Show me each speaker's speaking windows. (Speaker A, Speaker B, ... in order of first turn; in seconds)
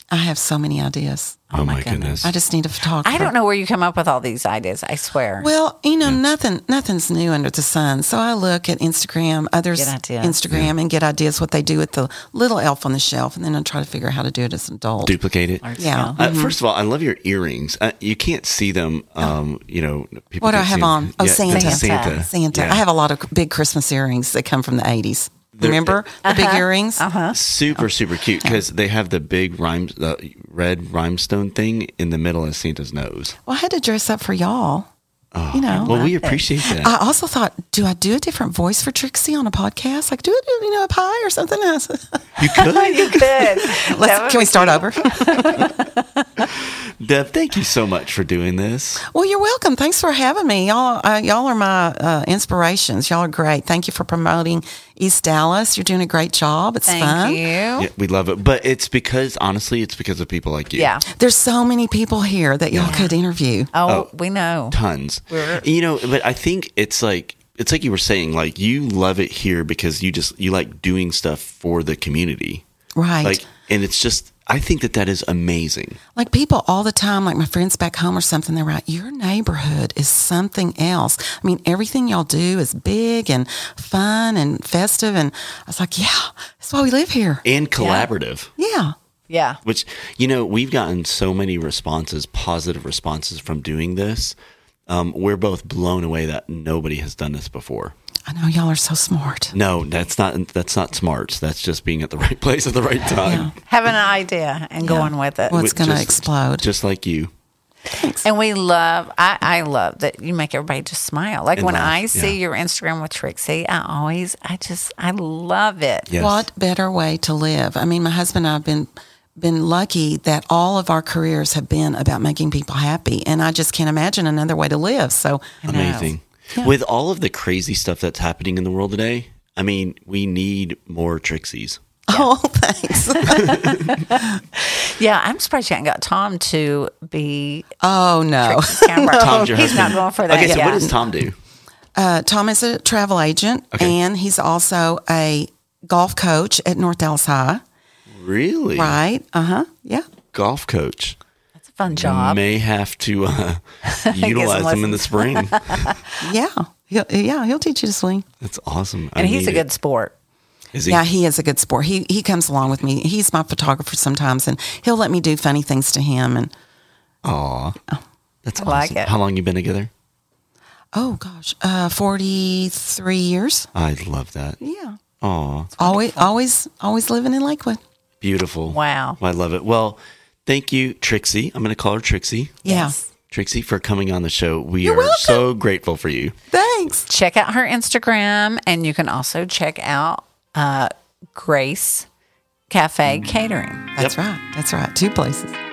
Speaker A: 0.1-1.5, 2.2-3.3, 5.4-15.2, 15.8-16.6, 20.4-27.1, 33.5-34.9, 35.5-36.1, 36.6-42.7, 43.7-45.7, 49.0-57.4, 61.1-63.7, 73.0-73.4, 76.1-87.4, 88.6-88.9, 98.3-99.5, 103.2-103.5, 104.8-106.7, 107.9-108.2, 116.2-125.6, 132.1-134.4, 137.8-140.0, 141.9-147.6, 148.7-150.1, 156.2-158.2, 160.8-166.5, 170.9-173.7, 174.6-175.0, 175.8-177.8, 182.6-183.0, 184.8-185.4, 186.5-187.1, 193.9-195.5
Speaker B: 1.5-2.2, 3.0-5.5, 9.7-10.4, 15.6-16.2, 21.5-22.2, 26.2-27.4, 35.7-36.4, 42.6-46.3, 56.9-57.9, 60.7-61.0, 62.8-63.1, 63.7-64.8, 65.3-65.6, 87.8-88.1, 89.3-89.6, 103.7-105.6, 108.2-116.1, 125.6-126.1, 133.1-137.7, 138.4-140.9, 151.7-152.4, 153.9-156.1, 159.2-160.1, 168.6-169.1, 175.8-176.2, 178.7-179.2, 182.6-183.0, 187.1-192.1, 192.7-193.8
Speaker C: 1.5-2.3, 15.0-22.8, 25.6-26.0, 27.3-33.3, 35.3-36.9, 42.4-43.6, 46.4-49.0, 57.8-60.9, 62.7-63.0, 64.7-72.6, 73.2-76.0, 87.4-88.5, 89.6-94.3, 94.9-97.9, 99.5-103.5, 105.5-107.3, 111.5-112.4, 116.1-116.4, 125.7-131.8, 133.3-134.0, 139.1-141.3, 148.1-149.0, 150.3-151.2, 151.9-155.9, 158.4-159.6, 160.7-161.0, 167.2-167.8, 168.4-169.9, 173.7-174.6, 175.2-175.8, 178.2-182.7, 183.3-186.3